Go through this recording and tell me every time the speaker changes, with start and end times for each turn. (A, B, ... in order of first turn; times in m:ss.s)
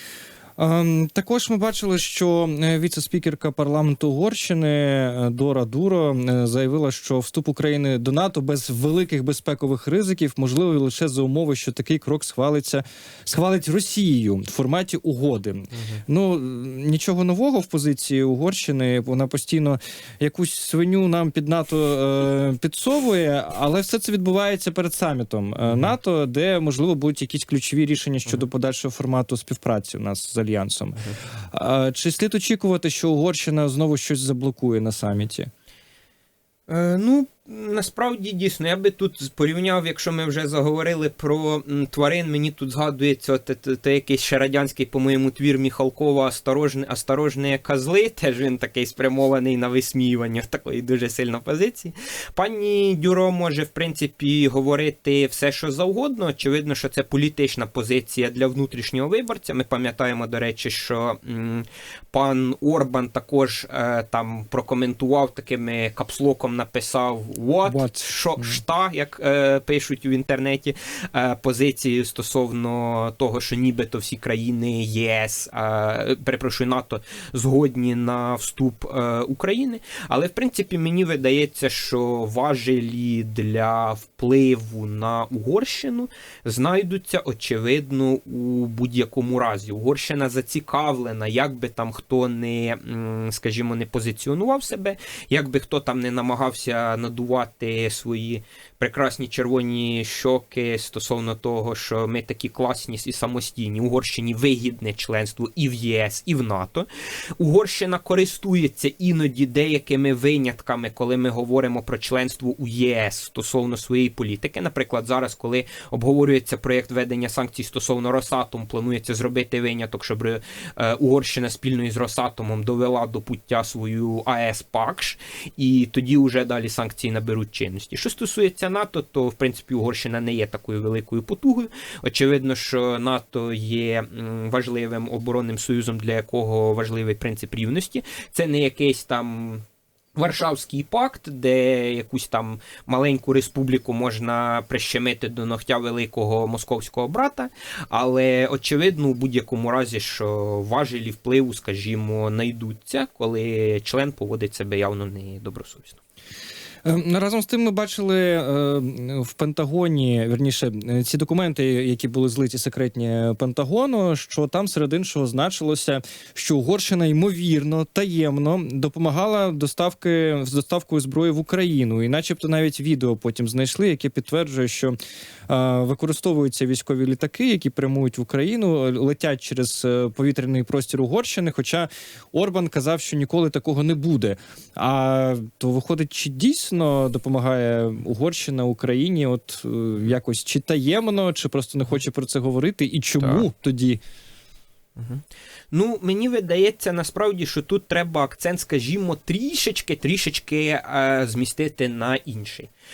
0:00.6-0:31.0 A
0:15.7-0:16.0 B
0:25.7-0:25.9 B
0:31.5-0:35.5 A
0:36.7-1:46.9 B
1:07.6-1:08.6 A
1:47.4-2:19.6 B
2:20.1-2:36.0 B
2:36.8-2:55.0 A
2:55.5-3:14.0 A
3:13.2-3:13.4 B
3:15.0-3:22.7 B